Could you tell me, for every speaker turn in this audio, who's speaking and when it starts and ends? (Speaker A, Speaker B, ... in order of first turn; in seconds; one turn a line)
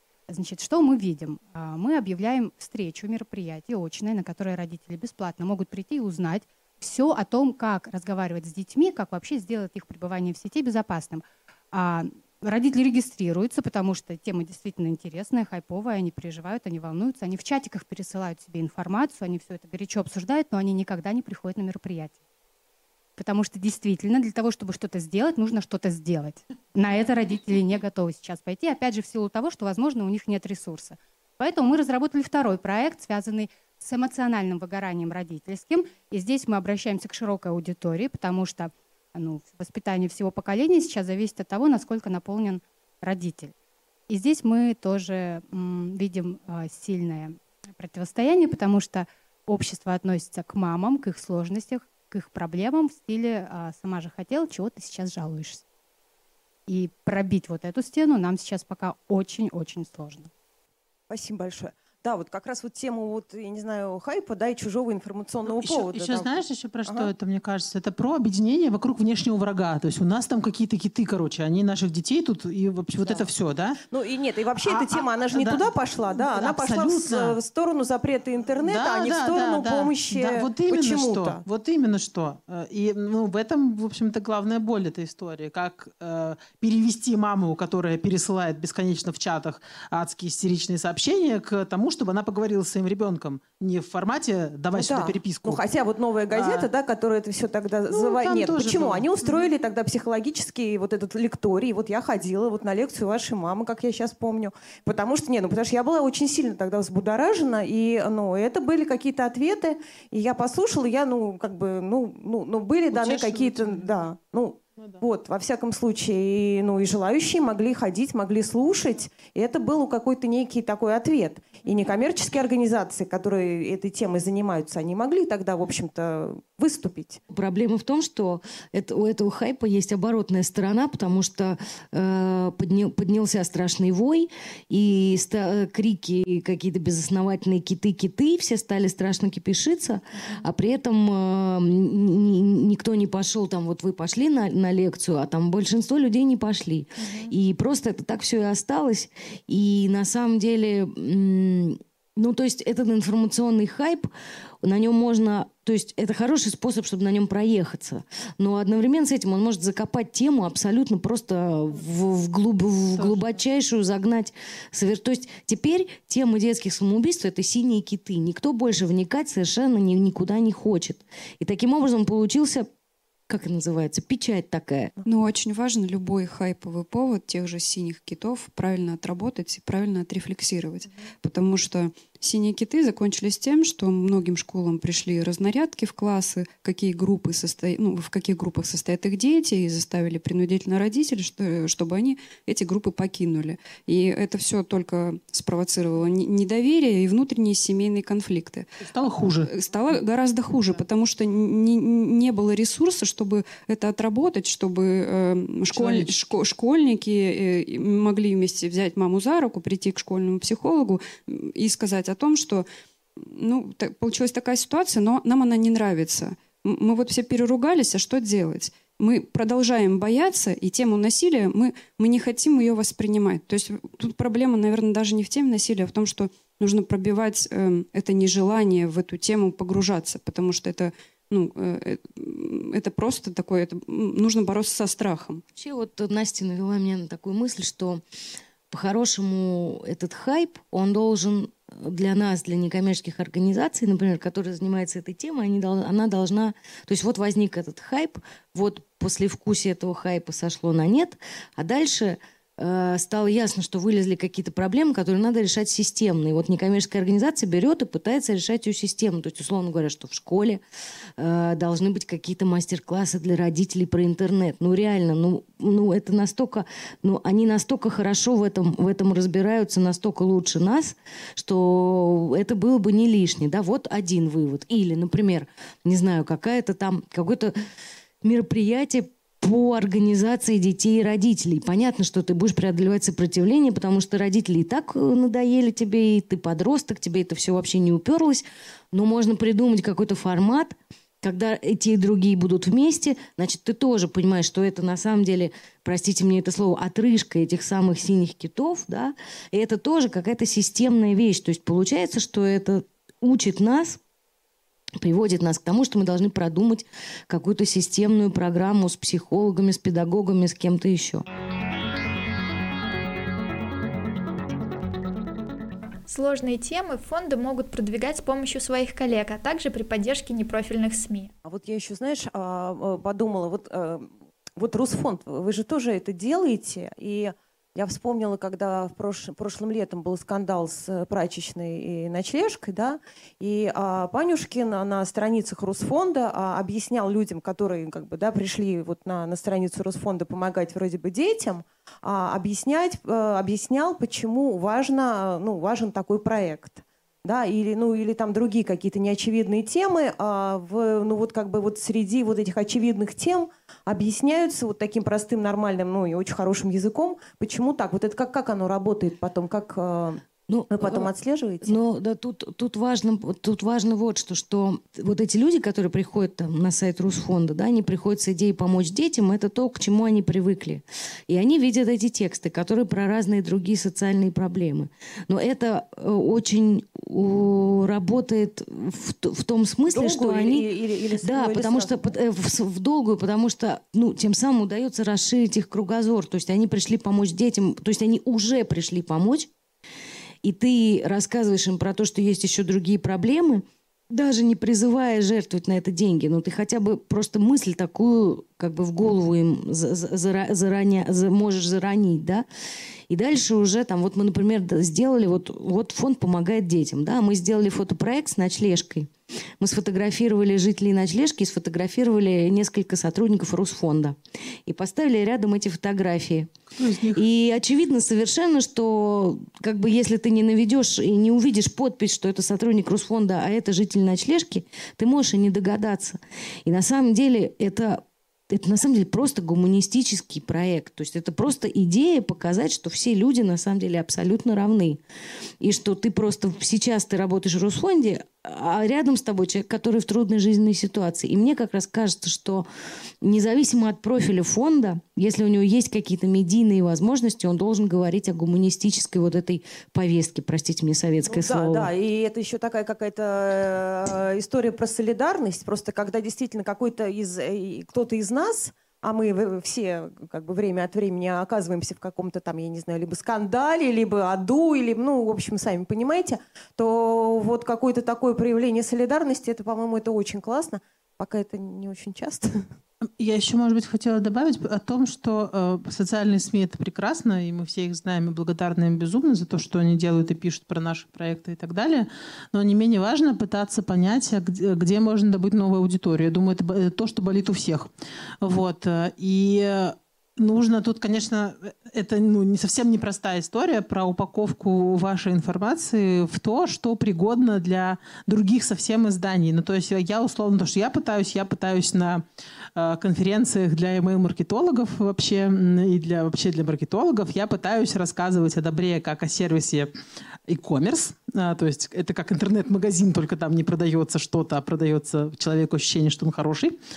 Speaker A: 0.3-22.2
Speaker A: 23.2-43.5
Speaker A: 44.1-55.6
Speaker A: 56.7-60.3
Speaker B: 61.1-67.1
Speaker C: 65.5-73.8
Speaker B: 73.0-73.3
Speaker B: 73.9-81.4
Speaker C: 74.6-77.4
Speaker C: 78.6-95.6
Speaker B: 94.8-127.2
Speaker C: 96.3-96.7
Speaker C: 97.9-99.5
Speaker C: 112.9-114.0
Speaker D: 127.3-154.1
Speaker D: 154.6-172.7
Speaker C: 163.0-163.3
Speaker D: 173.3-174.9
Speaker E: 175.1-198.7
Speaker C: 198.8-199.5
Speaker E: 199.5-212.7
Speaker C: 205.7-206.2
Speaker E: 213.2-235.4
Speaker D: 235.6-238.0
Speaker D: 238.7-260.6
Speaker D: 261.2-277.6
Speaker D: 278.2-304.0
Speaker D: 305.0-311.2
Speaker F: 316.1-321.3
Speaker B: 321.4-361.8
Speaker D: 360.5-361.1
Speaker D: 361.6-380.7
Speaker B: 379.9-382.2
Speaker D: 381.2-389.5
Speaker D: 390.4-402.5
Speaker D: 403.1-416.5
Speaker C: 416.8-417.2
Speaker D: 417.1-435.0
Speaker D: 435.6-442.7
Speaker D: 443.2-451.9
Speaker B: 451.3-472.6
Speaker C: 473.2-487.9
Speaker C: 488.4-502.2
Speaker C: 502.8-509.9
Speaker C: 510.5-516.7